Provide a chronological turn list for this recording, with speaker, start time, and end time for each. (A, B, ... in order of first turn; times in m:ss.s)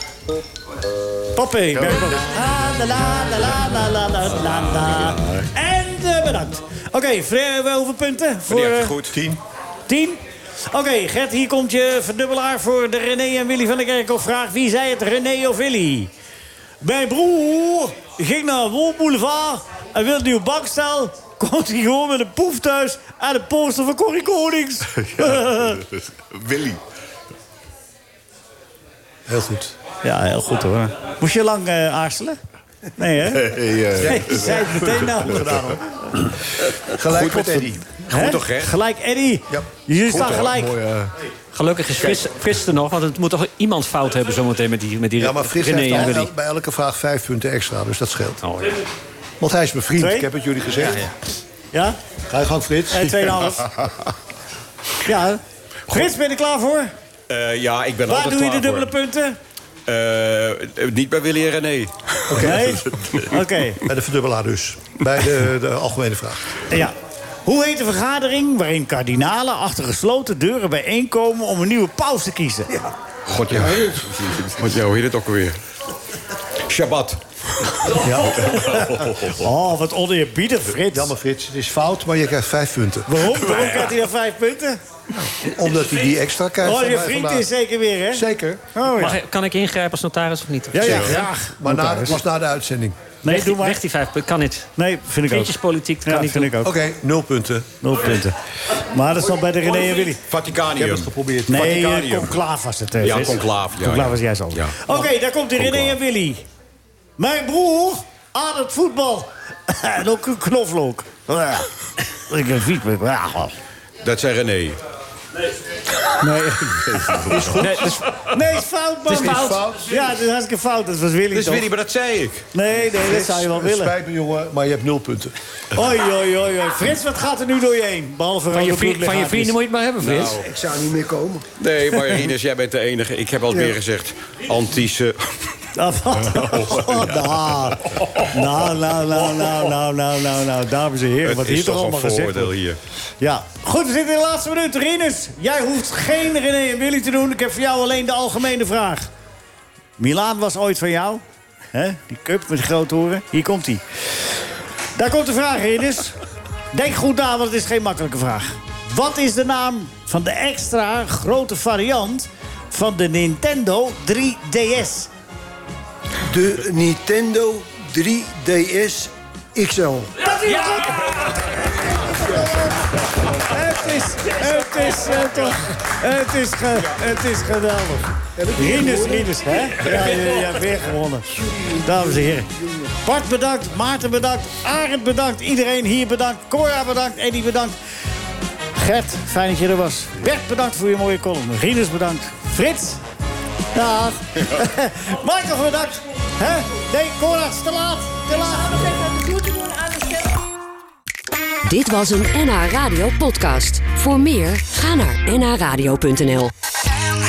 0:01.4-0:09.0 A
0:01.7-0:02.2 B
0:05.0-0:05.5 B
0:08.5-0:09.2 C
0:09.1-0:09.4 D
0:09.9-0:16.1 A
0:16.8-0:25.8 A
0:25.0-0:26.8 B
0:29.3-0:29.8 D
0:30.0-0:32.4 A
0:33.0-0:35.8 A
0:33.3-0:34.6 B
0:34.0-0:35.8 D
0:36.9-0:37.8 D
0:37.1-0:38.7 C
0:38.1-0:40.8 A
0:40.0-0:41.1 B
0:41.5-0:46.3 E
0:45.2-0:48.4 D
0:48.4-0:48.8 E
0:49.4-0:51.1 D
0:50.0-0:50.3 A
0:50.8-0:51.1 E
0:51.7-0:52.0 A
0:52.3-0:53.3 D
0:52.9-0:53.7 A
0:55.0-0:56.9 A
0:57.3-0:58.9 C
0:58.1-0:59.4 A
0:59.9-1:03.3 C
1:02.3-1:03.8 A
1:03.8-1:06.4 D
1:07.4-1:12.8 A
1:13.3-1:15.6 C
1:16.7-1:18.0 C
1:18.0-1:21.1 A
1:19.0-1:19.4 B
1:20.9-1:23.4 D
1:23.1-1:24.8 A
1:25.1-1:27.5 D
1:26.6-1:29.2 A
1:28.1-1:28.6 D
1:28.9-1:31.1 E
1:30.7-1:32.2 A
1:30.8-1:33.0 D
1:33.2-1:33.8 A
1:33.3-1:34.7 E
1:34.8-1:35.5 A
1:35.3-1:36.5 E
1:36.0-1:36.8 A
1:36.6-1:37.8 D
1:37.8-1:40.2 A
1:40.2-1:42.4 C
1:40.6-1:41.8 D
1:41.5-1:46.4 A
1:43.0-1:44.9 C
1:45.6-1:46.0 C
1:47.2-1:53.5 A
1:54.0-1:54.8 C
1:56.2-2:01.7 A
1:56.9-1:57.6 B
1:57.6-1:57.9 E
1:57.8-1:58.2 C
1:59.1-2:00.1 D
2:01.3-2:02.4 C
2:02.5-2:03.9 A
2:02.9-2:05.3 D
2:05.8-2:09.6 A
2:08.5-2:10.4 E
2:10.0-2:10.5 C
2:10.4-2:11.4 F
2:11.6-2:15.2 C
2:13.5-2:13.8 F
2:15.8-2:22.5 A
2:16.3-2:17.2 C
2:21.2-2:22.8 C
2:23.2-2:29.1 A
2:30.0-2:31.2 A
2:31.7-2:33.8 A
2:35.0-2:36.2 A
2:36.7-2:45.1 A
2:46.2-2:50.2 F
2:50.2-3:02.5 A
2:50.4-2:51.5 E
2:54.4-2:55.0 E
2:58.4-2:59.9 F
3:01.3-3:02.9 F
3:03.0-3:07.8 A
3:08.8-3:13.0 A
3:13.7-3:19.0 A
3:21.7-3:26.5 G